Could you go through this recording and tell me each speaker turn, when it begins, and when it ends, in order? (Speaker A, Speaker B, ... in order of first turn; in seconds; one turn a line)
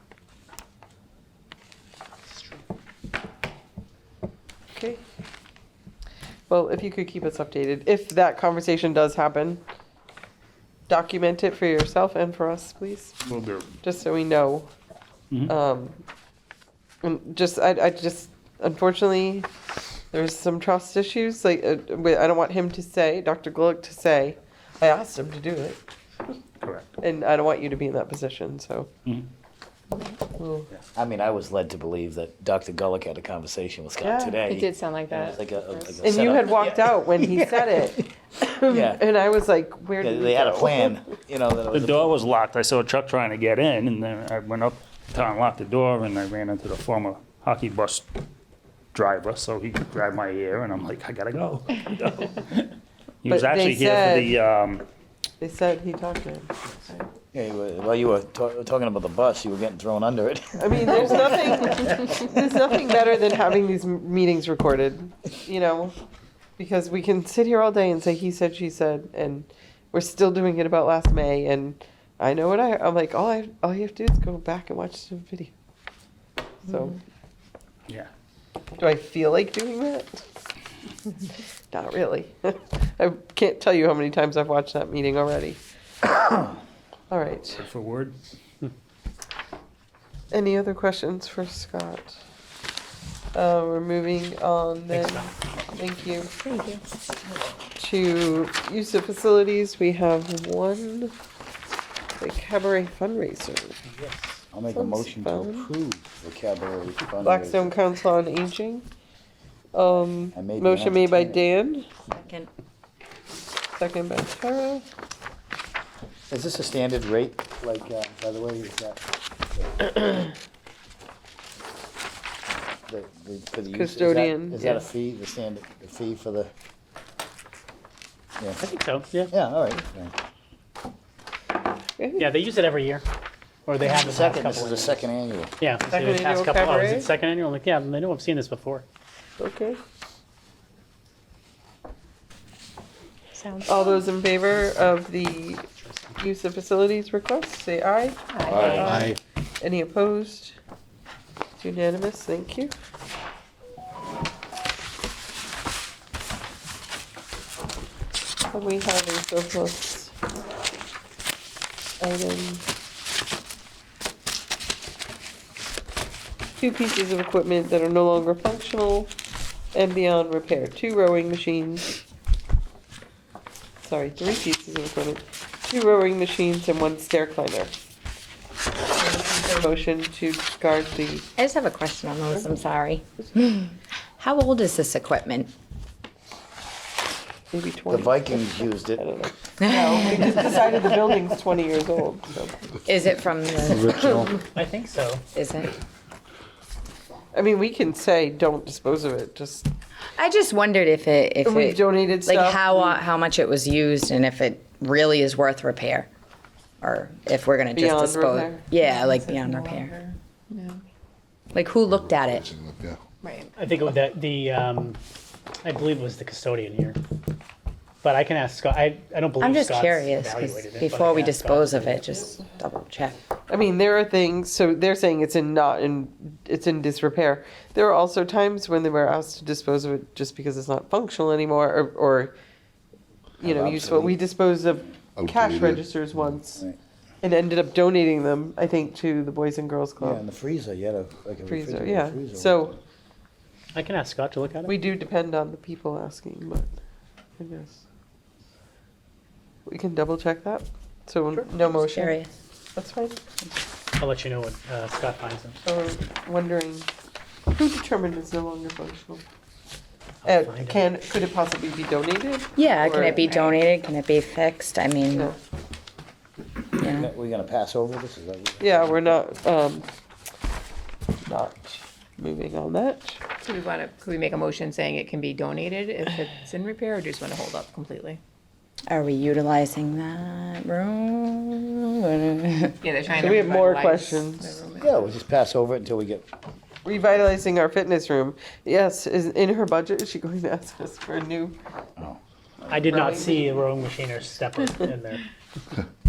Speaker A: 4.7-5.0
Speaker A: 6.5-9.6
Speaker A: 10.9-13.2
Speaker B: 13.2-13.8
Speaker A: 13.8-14.7
Speaker A: 15.5-16.0
Speaker A: 17.0-19.5
Speaker A: 20.1-25.8
Speaker B: 26.6-26.9
Speaker A: 27.0-28.9
Speaker C: 29.9-30.2
Speaker A: 30.3-30.7
Speaker D: 30.9-37.9
Speaker A: 34.0-34.4
Speaker C: 34.4-36.1
Speaker A: 36.0-41.0
Speaker D: 38.7-39.0
Speaker D: 40.0-42.1
Speaker B: 41.7-48.1
Speaker B: 48.9-52.7
Speaker B: 53.2-54.8
Speaker A: 53.3-54.4
Speaker A: 55.4-57.0
Speaker D: 57.3-62.2
Speaker A: 60.6-66.0
Speaker A: 66.6-75.5
Speaker A: 76.6-77.0
Speaker A: 78.8-80.2
Speaker A: 81.7-85.6
Speaker A: 87.1-87.6
Speaker B: 87.5-88.2
Speaker A: 90.3-92.2
Speaker A: 93.3-96.3
Speaker E: 94.9-95.3
Speaker C: 96.4-96.8
Speaker A: 97.7-101.1
Speaker A: 102.2-103.8
Speaker E: 103.9-104.5
Speaker D: 104.5-107.7
Speaker A: 104.7-105.7
Speaker A: 107.2-108.8
Speaker A: 109.7-111.9
Speaker D: 110.3-111.4
Speaker F: 112.1-112.5
Speaker A: 113.8-114.8
Speaker D: 116.3-119.0
Speaker D: 119.6-119.9
Speaker D: 122.9-126.5
Speaker A: 123.7-124.8
Speaker E: 128.6-129.3
Speaker D: 129.3-130.1
Speaker A: 132.0-132.3
Speaker E: 132.2-133.0
Speaker E: 133.7-135.0
Speaker D: 134.0-135.5
Speaker E: 135.6-138.8
Speaker A: 135.9-137.1
Speaker A: 139.4-139.8
Speaker C: 143.3-144.1
Speaker A: 143.7-145.6
Speaker E: 144.5-144.9
Speaker E: 145.8-146.2
Speaker A: 146.2-150.6
Speaker C: 148.3-149.1
Speaker G: 148.5-149.1
Speaker A: 151.6-152.7
Speaker A: 158.5-160.1
Speaker A: 162.0-162.6
Speaker A: 166.6-169.1
Speaker A: 169.7-171.9
Speaker A: 173.8-177.7
Speaker A: 179.0-181.3
Speaker F: 181.4-185.5
Speaker A: 187.5-192.6
Speaker D: 187.9-189.1
Speaker F: 189.6-190.5
Speaker F: 192.8-194.3
Speaker E: 194.5-195.2
Speaker F: 195.3-195.7
Speaker A: 197.3-199.7
Speaker F: 200.2-206.1
Speaker A: 201.4-203.0
Speaker F: 206.8-209.9
Speaker A: 207.7-208.7
Speaker C: 208.7-210.8
Speaker F: 211.5-212.5
Speaker G: 211.9-213.0
Speaker C: 213.2-213.5
Speaker E: 213.6-215.0
Speaker E: 215.6-217.0
Speaker E: 218.0-222.1
Speaker F: 219.4-223.2
Speaker A: 223.5-232.3
Speaker A: 233.4-236.6
Speaker D: 233.4-234.2
Speaker G: 235.2-236.4
Speaker A: 237.2-240.2
Speaker D: 240.0-242.8
Speaker A: 241.5-242.8
Speaker E: 243.7-244.8
Speaker A: 244.7-246.8
Speaker A: 247.4-247.8
Speaker A: 249.7-252.2
Speaker F: 251.8-252.3
Speaker A: 252.8-253.2
Speaker E: 254.0-255.6
Speaker A: 255.6-256.9
Speaker A: 257.5-259.2
Speaker A: 260.2-263.5
Speaker E: 260.2-260.8
Speaker F: 262.6-265.3
Speaker A: 265.1-265.4
Speaker F: 266.8-267.1
Speaker D: 266.9-269.2
Speaker A: 268.6-269.9
Speaker A: 271.2-273.2
Speaker C: 273.4-278.2
Speaker F: 278.9-282.8
Speaker C: 282.8-285.1
Speaker A: 283.1-284.6
Speaker D: 284.8-286.3
Speaker A: 286.8-291.5
Speaker D: 292.7-293.0
Speaker E: 292.7-295.2
Speaker A: 292.8-293.6